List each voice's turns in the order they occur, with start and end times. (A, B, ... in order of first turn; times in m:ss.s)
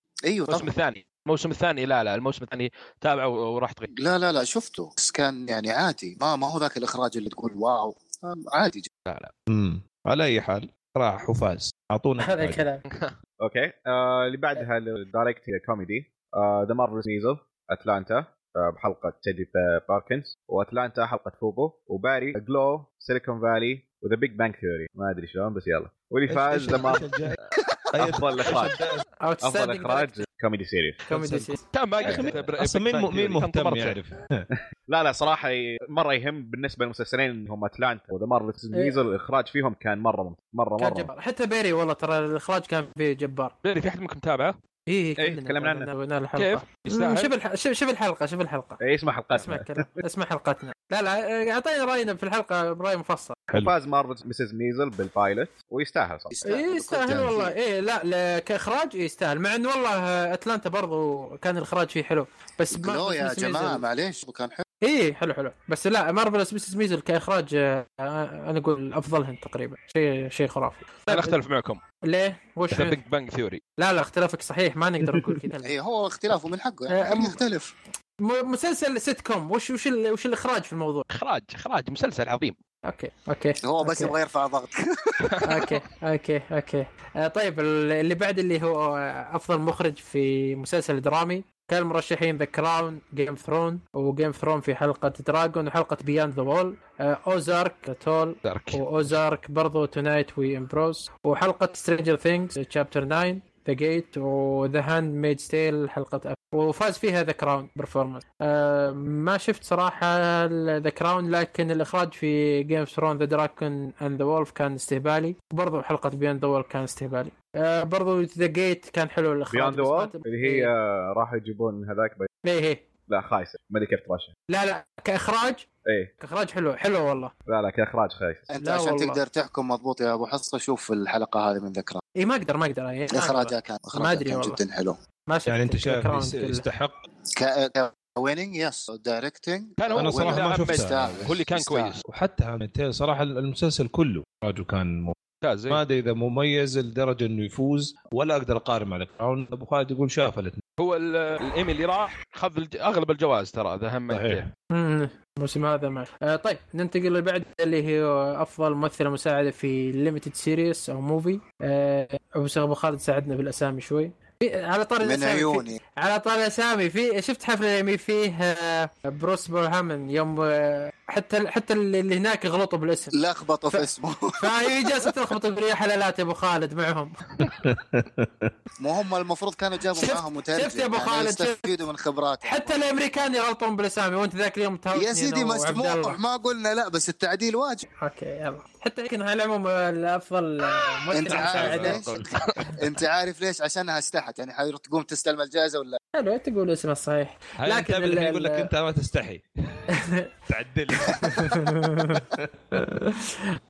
0:00.2-0:00.7 A
0:00.5-0:03.9 B
0:04.0-0:08.9 A
0:09.1-0:09.3 B
0:09.5-0:12.6 C
0:12.2-0:12.8 D
0:12.9-0:13.1 B
0:13.4-0:27.1 E
0:26.3-0:27.4 C
0:27.6-0:27.9 A
0:27.9-0:29.0 C
0:28.0-0:28.7 E
0:29.2-0:30.2 D
0:29.4-0:31.1 E
0:31.1-0:31.6 D
0:31.6-0:34.0 B
0:32.0-0:34.5 C
0:32.0-0:32.3 E
0:34.9-0:41.1 E
0:38.7-0:39.0 D
0:40.8-0:43.5 D
0:43.6-0:44.6 B
0:44.9-0:48.8 D
0:45.2-0:45.9 E
0:46.4-0:47.3 B
0:48.8-0:50.0 E
0:49.4-0:53.4 D
0:53.6-0:56.3 E
0:56.3-0:57.6 A
0:56.4-1:03.8 D
1:02.7-1:04.6 A
1:04.8-1:11.4 D
1:11.1-1:11.8 B
1:12.0-1:13.0 D
1:12.7-1:13.6 B
1:13.8-1:15.7 D
1:15.6-1:17.8 A
1:16.9-1:17.4 D
1:18.2-1:21.1 D
1:21.1-1:22.6 B
1:22.8-1:24.2 D
1:23.6-1:25.3 A
1:25.5-2:00.7 D
1:38.4-1:38.8 B
1:59.5-2:02.3 E
2:02.4-2:02.9 D
2:03.1-2:04.3 E
2:04.5-2:05.7 D
2:05.9-2:06.1 E
2:06.2-2:07.3 D
2:07.5-2:08.5 E
2:08.5-2:12.0 A
2:08.6-2:09.2 D
2:12.2-2:14.6 D
2:13.1-2:15.0 A
2:15.3-2:16.7 D
2:15.5-2:17.0 C
2:17.3-2:22.0 A
2:19.8-2:22.0 B
2:19.9-2:21.4 C
2:22.0-2:25.2 C
2:25.4-2:25.8 B
2:25.7-2:30.6 C
2:30.8-2:34.4 B
2:34.1-2:34.5 C
2:34.7-2:53.2 D
2:45.0-2:45.8 A
2:53.1-2:54.9 A
2:54.4-2:57.2 D
2:57.4-2:58.5 C
2:58.8-3:02.9 A
3:00.0-3:01.6 D
3:02.4-3:06.2 D
3:04.9-3:07.9 A
3:08.0-3:12.0 D
3:11.1-3:12.2 A
3:11.3-3:12.7 B
3:11.6-3:12.0 C
3:12.8-3:16.0 A
3:16.2-3:18.7 D
3:17.6-3:19.5 C
3:20.0-3:20.3 D
3:20.5-3:21.6 C
3:21.1-3:22.2 D
3:22.3-3:22.9 C
3:22.8-3:23.3 D